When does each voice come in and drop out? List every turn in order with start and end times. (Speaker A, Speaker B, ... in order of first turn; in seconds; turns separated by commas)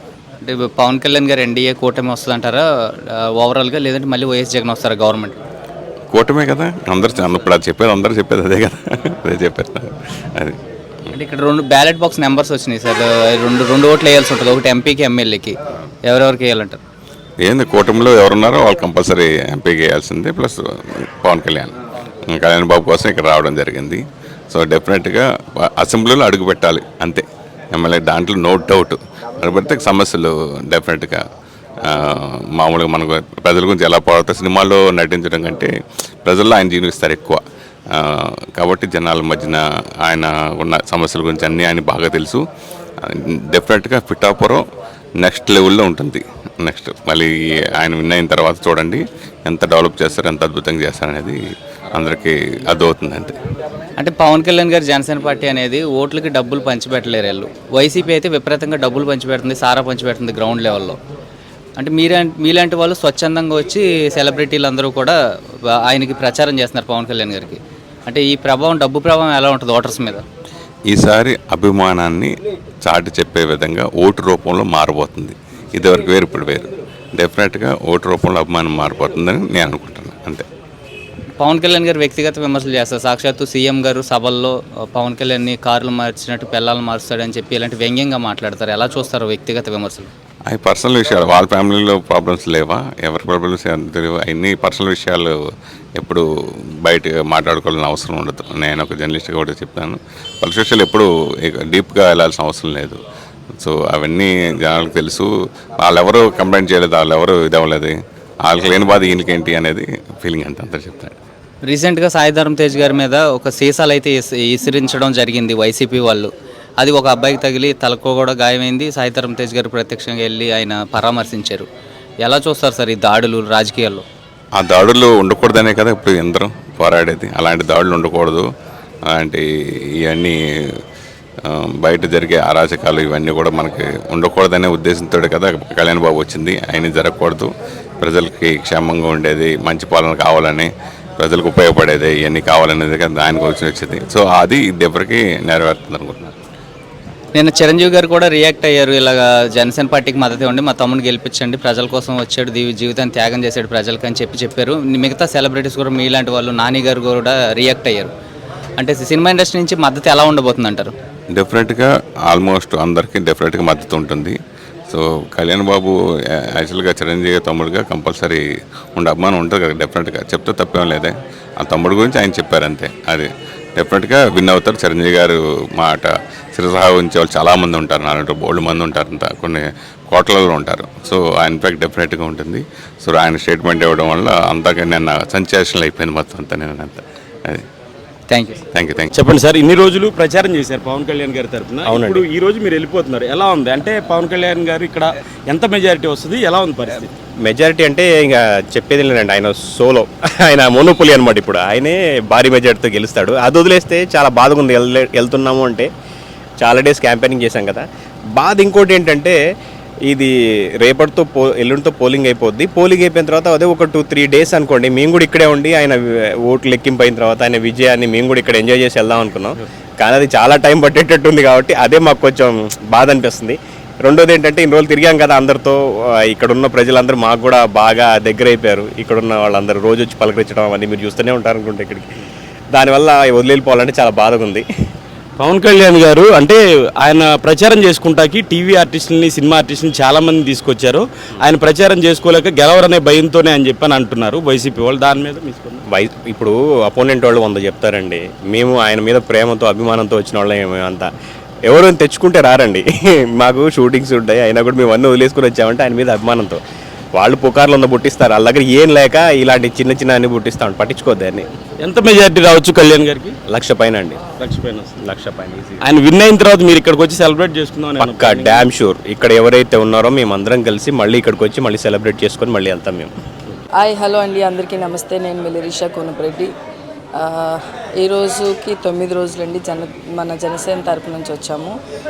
Speaker A: 0.4-2.6, Speaker A: 3.4-5.4, Speaker B: 6.1-11.1, Speaker A: 11.1-16.8, Speaker B: 17.4-21.7, Speaker B: 22.3-31.2, Speaker B: 31.8-35.7, Speaker B: 36.2-42.4, Speaker B: 43.0-44.6, Speaker B: 45.2-51.4, Speaker B: 51.9-53.4, Speaker A: 54.0-61.0, Speaker A: 61.8-65.1, Speaker A: 65.8-70.2, Speaker B: 70.9-72.3, Speaker B: 72.8-80.4, Speaker A: 81.4-90.1, Speaker B: 90.5-95.3, Speaker B: 96.0-96.2, Speaker B: 96.8-103.0, Speaker B: 103.6-105.3, Speaker B: 105.8-111.1, Speaker A: 111.6-121.7, Speaker A: 122.2-124.0, Speaker B: 124.5-128.4, Speaker B: 129.1-129.4, Speaker B: 130.0-130.3, Speaker B: 131.4-137.5, Speaker B: 138.0-146.3, Speaker A: 147.3-158.1, Speaker A: 158.8-160.9, Speaker B: 161.3-164.3, Speaker B: 164.9-168.4, Speaker B: 168.9-187.7, Speaker A: 188.3-188.6, Speaker B: 188.7-189.1, Speaker C: 189.1-197.1, Speaker D: 191.8-192.3, Speaker D: 197.4-205.9, Speaker D: 206.6-207.8, Speaker D: 208.4-209.3, Speaker D: 210.8-232.1, Speaker D: 232.7-234.6, Speaker C: 235.4-245.8, Speaker D: 245.9-251.1, Speaker D: 251.7-256.6, Speaker D: 257.2-261.4, Speaker C: 261.8-263.4, Speaker D: 263.5-264.2, Speaker C: 264.4-265.0, Speaker D: 265.0-265.8, Speaker C: 265.8-268.7, Speaker D: 268.0-273.1, Speaker E: 273.8-276.5, Speaker E: 277.1-281.8